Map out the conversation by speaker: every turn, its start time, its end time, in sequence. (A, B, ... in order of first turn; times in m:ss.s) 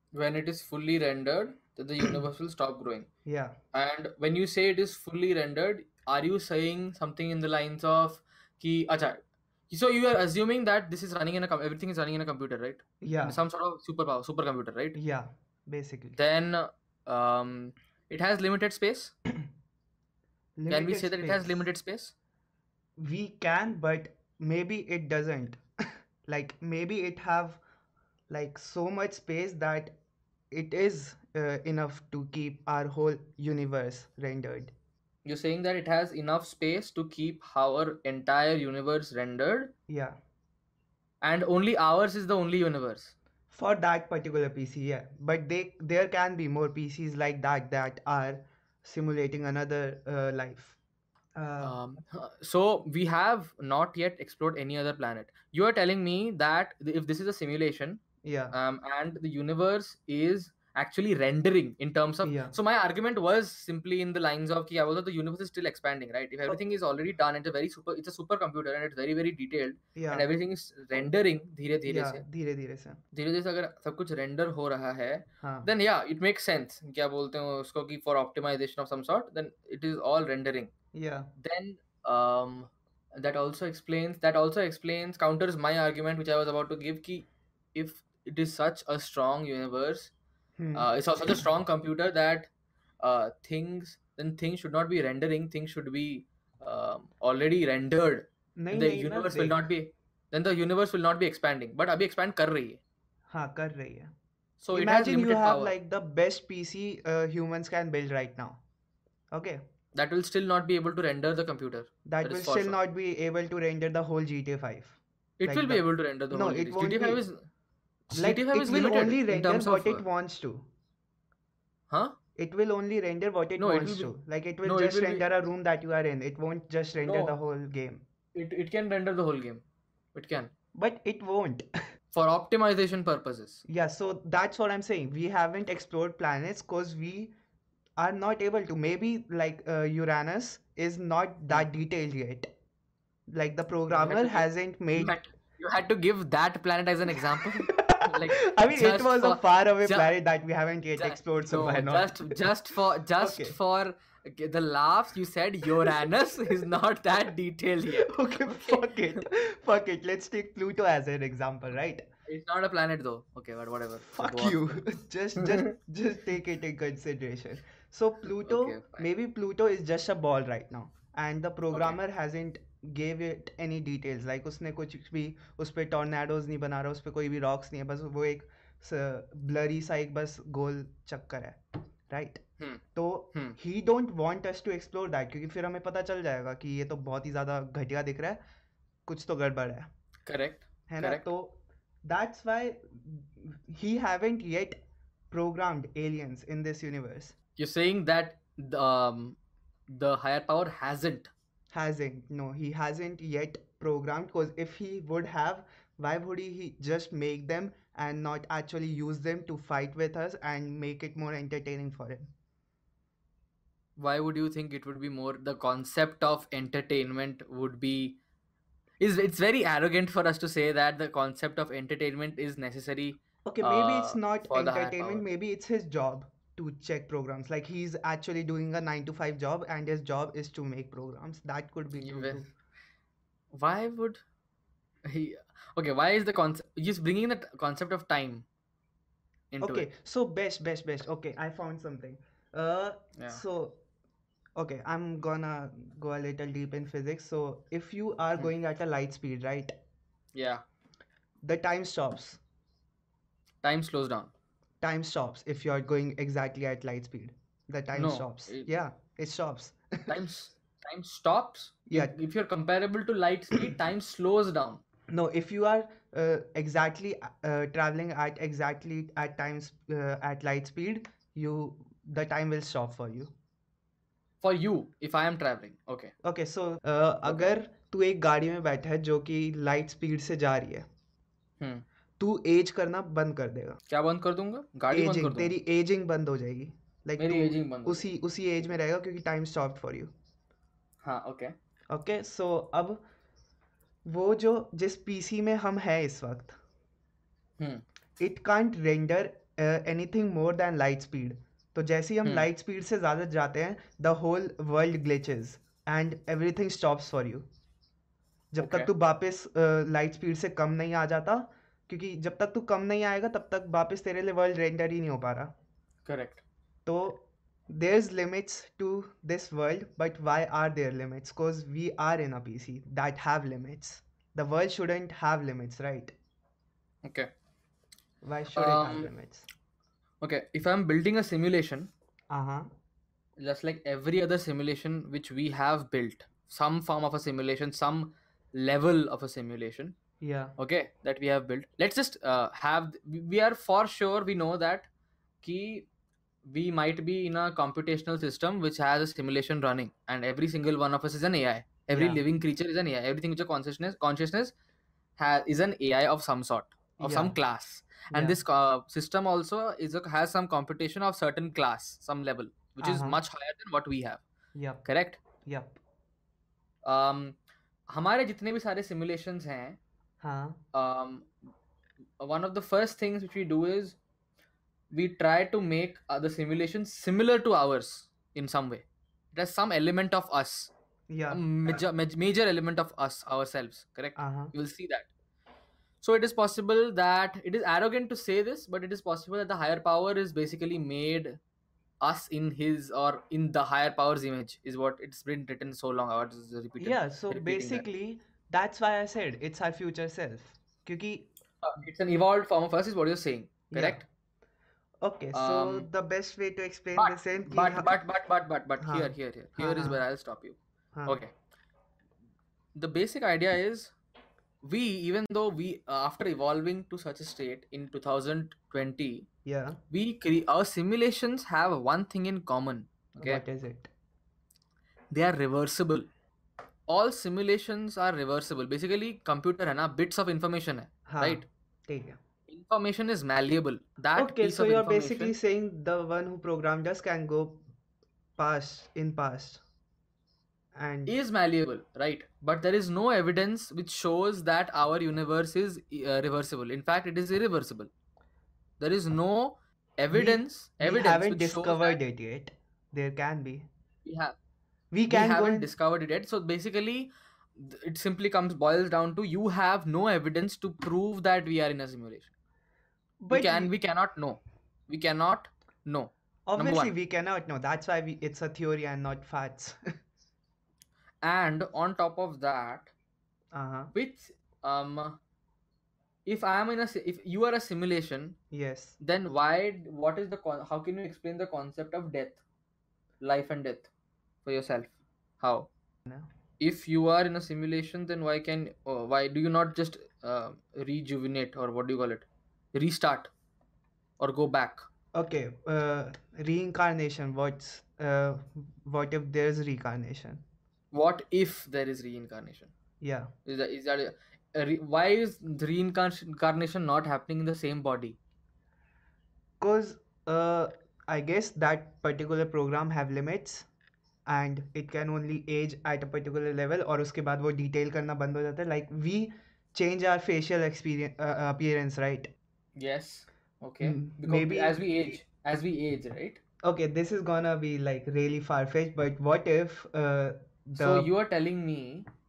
0:00.1-0:03.1 A
0:03.2-0:03.6 B
0:03.7-0:15.0 A
0:13.0-0:13.4 B
0:14.9-0:16.2 B
0:16.2-0:19.1 A
0:20.6-0:21.6 B
0:20.7-0:22.1 A
0:23.0-0:25.6 B
0:26.2-0:27.6 B
0:28.3-0:29.9 B
0:30.5-0:34.7 B
0:35.2-0:39.7 A
0:39.9-0:40.2 B
0:41.2-0:43.1 A
0:43.5-0:50.8 B
0:51.4-0:51.8 B
0:51.6-0:58.0 A
0:58.2-0:58.6 B
0:58.5-1:12.2 A
1:02.2-1:02.5 B
1:10.0-1:10.3 B
1:11.9-1:13.0 B
1:13.1-1:20.7 A
1:15.4-1:15.7 B
1:20.9-1:21.3 B
1:21.4-1:30.1 A
1:30.6-1:30.9 B
1:30.7-1:32.5 A
1:33.0-1:42.8 A
1:38.6-1:39.6 B
1:43.3-1:44.1 B
1:44.6-1:45.7 A
1:44.7-1:48.6 B
1:49.3-1:49.6 B
1:49.9-1:52.8 A
1:52.0-1:57.2 B
1:55.4-1:57.4 A
1:58.1-2:00.0 A
1:58.1-2:00.7 B
2:01.9-2:02.2 A
2:02.4-2:08.0 B
2:03.6-2:04.1 A
2:04.6-2:05.2 A
2:07.0-2:07.4 A
2:08.3-2:09.6 A
2:10.1-2:10.5 A
2:10.8-2:11.7 B
2:12.1-2:13.6 A
2:13.6-2:17.3 B
2:18.0-2:22.5 B
2:23.3-2:25.1 B
2:23.9-2:30.1 A
2:27.3-2:32.4 B
2:31.0-2:39.2 A
2:33.2-2:33.6 B
2:37.9-2:42.0 B
2:42.2-2:44.8 A
2:44.0-3:02.4 B
2:45.4-2:45.7 A
2:48.4-2:49.1 A
2:51.7-2:52.0 A
3:02.9-3:08.4 B
3:09.1-3:09.9 B
3:10.2-3:11.3 A
3:10.9-3:14.8 B
3:15.3-3:17.3 B
3:17.6-3:19.4 A
3:19.9-3:21.3 A
3:21.7-3:32.3 B
3:34.0-3:38.2 A
3:39.0-3:45.2 A
3:43.4-3:52.5 B
3:52.0-3:52.4 A
3:53.5-3:54.2 A
3:55.0-3:58.4 A
3:59.5-3:59.9 A
3:59.6-4:03.8 B
4:03.2-4:03.4 A
4:04.6-4:09.7 B
4:10.3-4:10.6 A
4:11.4-4:12.4 B
4:13.6-4:14.3 A
4:14.8-4:20.2 B
4:17.9-4:18.7 A
4:20.1-4:24.8 A
4:21.9-4:22.1 B
4:25.1-4:33.3 B
4:34.4-4:36.1 A
4:36.2-4:40.8 B
4:37.2-4:37.5 A
4:41.6-4:41.8 A
4:42.2-4:43.8 B
4:43.9-4:45.5 A
4:44.9-4:50.1 B
4:47.2-4:48.1 A
4:51.0-4:51.5 A
4:51.9-4:53.0 B
4:54.0-4:56.6 B
4:57.6-4:57.8 A
4:58.2-5:07.5 B
5:08.5-5:15.5 B
5:08.6-5:08.9 A
5:16.0-5:16.4 A
5:16.8-5:26.1 B
5:27.0-5:27.3 A
5:28.2-5:29.4 B
5:28.5-5:29.1 A
5:30.2-5:31.9 A
5:32.3-5:32.7 B
5:33.4-5:39.9 A
5:40.2-5:40.6 B
5:40.6-5:44.9 A
5:45.4-5:45.9 A
5:46.4-5:54.5 A
5:51.9-5:52.2 B
5:55.2-6:04.2 A
5:57.0-5:57.3 B
5:58.1-5:58.4 B
6:02.8-6:03.2 B
6:04.5-6:04.8 B
6:04.8-6:05.2 A
6:05.4-6:05.8 B
6:06.8-6:07.4 A
6:07.9-6:09.8 A
6:10.2-6:10.6 B
6:10.7-6:11.3 A
6:12.2-6:14.0 A
6:14.9-6:20.7 A
6:21.1-6:21.4 B
6:21.3-6:25.1 A
6:24.2-6:24.5 B
6:26.0-6:31.4 A
6:32.0-6:37.8 A
6:36.8-6:41.3 B
6:41.6-6:44.0 A
6:43.7-6:44.0 B
6:45.0-6:48.0 B
6:45.3-6:45.9 A
6:47.0-6:51.3 A
6:48.8-6:50.0 B
6:52.7-6:53.9 A
6:54.6-6:59.3 A
6:59.4-6:59.8 B
6:59.9-7:03.4 A
7:03.2-7:03.9 B
7:05.1-7:06.1 A
7:06.9-7:11.4 A
7:11.0-7:12.2 B
7:12.5-7:15.3 A
7:14.2-7:17.6 B
7:18.4-7:19.6 B
7:20.7-7:21.2 B
7:21.1-7:27.9 A
7:28.8-7:32.0 A
7:30.1-7:33.7 B
7:34.0-7:34.3 A
7:34.9-7:35.7 B
7:35.1-7:42.3 A
7:43.2-7:43.7 B
7:43.3-7:46.9 A
7:46.5-7:49.8 B
7:51.2-7:52.9 A
7:53.5-7:53.9 B
7:53.9-7:55.2 A
7:56.2-7:58.4 A
7:58.5-7:59.0 B
7:59.0-8:02.4 A
8:03.2-8:03.9 A
8:04.4-8:05.7 A
8:06.6-8:13.3 A
8:14.2-8:14.9 A
8:15.1-8:20.4 B
8:20.9-8:22.7 A
8:23.0-8:23.3 B
8:23.4-8:28.2 A
8:29.6-8:33.6 B
8:34.3-8:42.3 B
8:42.8-8:46.4 A
8:43.8-8:45.2 B
8:46.6-8:51.1 B
8:50.8-8:52.1 A